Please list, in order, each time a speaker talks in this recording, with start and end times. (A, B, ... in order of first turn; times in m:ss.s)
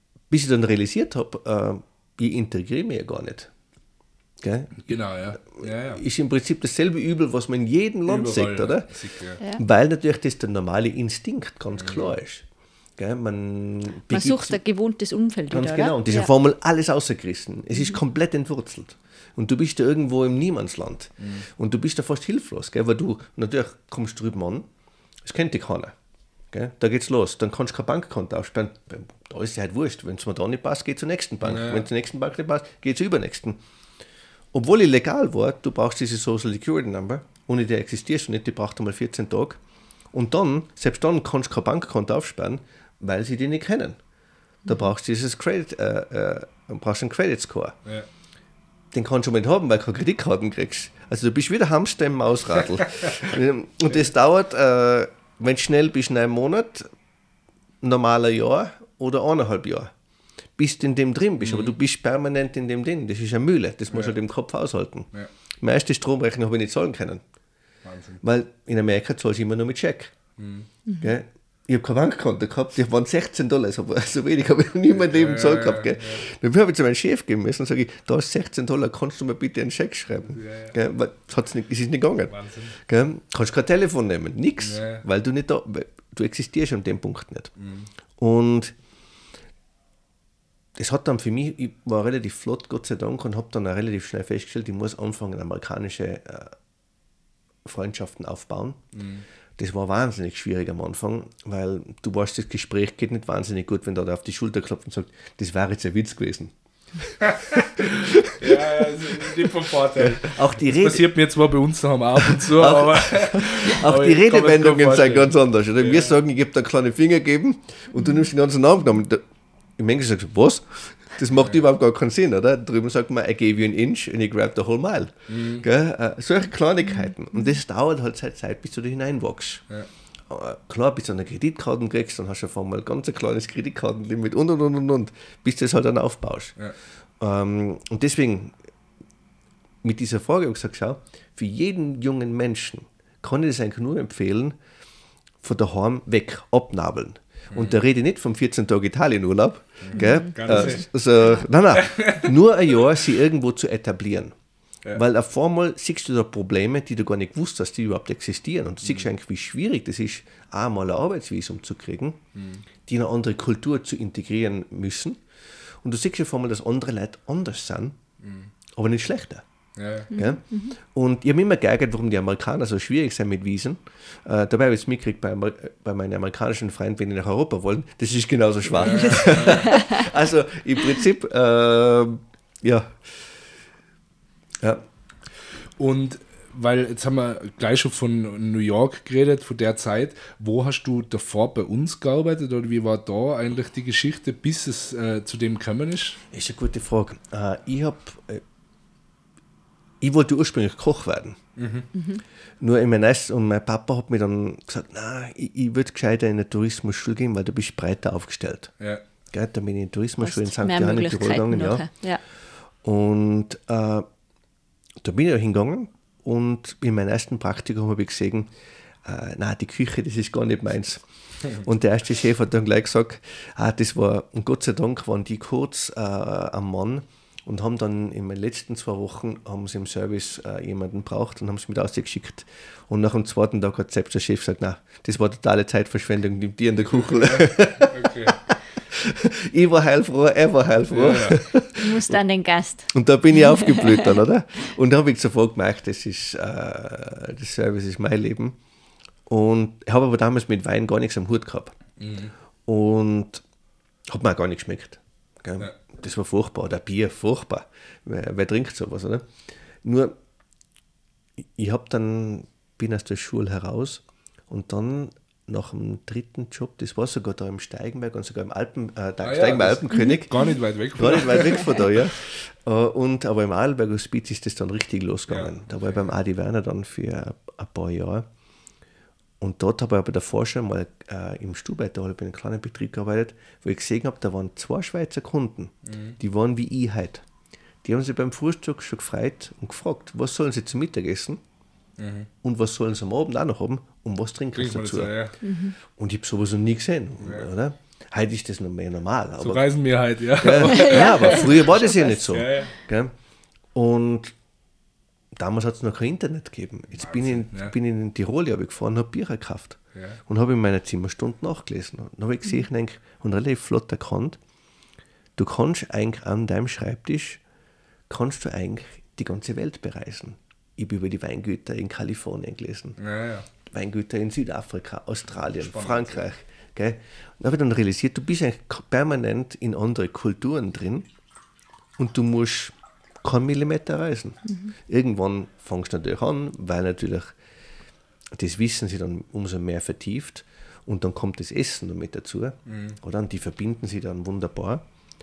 0:00.3-0:03.5 A
0:04.4-0:04.9 A
0:04.8-0:06.0 B
0:05.4-0:08.9 A
0:08.1-0:09.4 B
0:09.6-0:12.4 A
0:11.8-0:12.1 B
0:13.0-0:14.6 A
0:14.1-0:16.3 C
0:15.5-0:24.7 A
0:21.2-0:21.5 B
0:25.2-0:25.9 A
0:26.5-0:33.6 A
0:31.4-0:31.9 B
0:34.5-0:39.6 A
0:40.1-0:44.0 A
0:44.6-0:47.8 A
0:48.9-0:56.9 A
0:57.8-0:59.9 A
1:00.6-1:05.1 A
1:01.4-1:01.8 B
1:03.9-1:04.2 B
1:05.6-1:07.2 A
1:07.8-1:08.2 B
1:08.2-1:10.1 A
1:10.4-1:10.7 B
1:10.9-1:11.1 C
1:11.0-1:27.5 A
1:14.9-1:16.2 B
1:20.3-1:20.8 B
1:22.3-1:22.8 B
1:24.6-1:25.0 B
1:27.6-1:27.9 B
1:28.2-1:28.7 A
1:30.8-1:36.6 A
1:37.6-1:38.8 A
1:38.9-1:39.2 B
1:39.6-1:51.1 A
1:47.2-1:56.2 B
1:52.2-1:59.2 A
1:59.8-2:09.6 A
2:05.3-2:05.7 B
2:10.3-2:16.6 A
2:17.2-2:18.6 A
2:19.8-2:24.6 A
2:25.4-2:34.3 A
2:27.5-2:27.8 B
2:29.8-2:30.9 B
2:30.0-2:30.8 C
2:31.8-2:32.3 B
2:34.9-2:42.2 A
2:42.4-2:42.6 B
2:42.9-2:45.2 A
2:45.8-2:48.0 A
2:48.2-2:48.5 B
2:48.8-2:49.4 A
2:49.8-2:50.1 B
2:50.1-3:03.2 A
2:50.1-2:50.8 C
2:58.7-2:59.8 B
3:05.8-3:16.2 B
3:16.3-3:18.4 A
3:20.0-3:21.4 A
3:21.6-3:21.9 B
3:21.9-3:22.2 C
3:22.6-3:28.7 A
3:29.3-3:31.9 A
3:30.2-3:32.2 C
3:32.8-3:34.1 A
3:35.0-3:38.5 A
3:39.0-4:02.2 A
3:56.8-3:58.4 B
4:00.9-4:01.4 B
4:01.8-4:04.2 C
4:02.9-4:08.6 A
4:09.3-4:11.8 A
4:12.0-4:12.3 B
4:12.7-4:13.4 A
4:14.1-4:19.3 A
4:19.8-4:20.2 A
4:21.6-4:30.4 A
4:29.2-4:32.1 B
4:31.0-4:38.3 A
4:35.3-4:36.1 B
4:39.4-4:47.2 A
4:45.9-4:46.2 B
4:47.8-4:51.4 A
4:52.0-4:52.3 B
4:52.4-4:55.2 A
4:54.6-4:55.4 B
4:55.4-4:55.8 C
4:55.9-4:59.6 A
4:57.2-4:57.5 B
4:59.4-5:02.7 B
5:00.4-5:03.1 A
5:00.6-5:01.9 C
5:03.7-5:04.3 A
5:05.4-5:14.4 A
5:07.0-5:07.7 B
5:15.4-5:17.4 A
5:18.1-5:23.0 A
5:23.0-5:23.5 B
5:23.7-5:31.1 A
5:25.5-5:26.2 B
5:32.0-5:37.4 A
5:34.5-5:34.7 C
5:38.3-5:44.8 A
5:42.7-5:43.0 B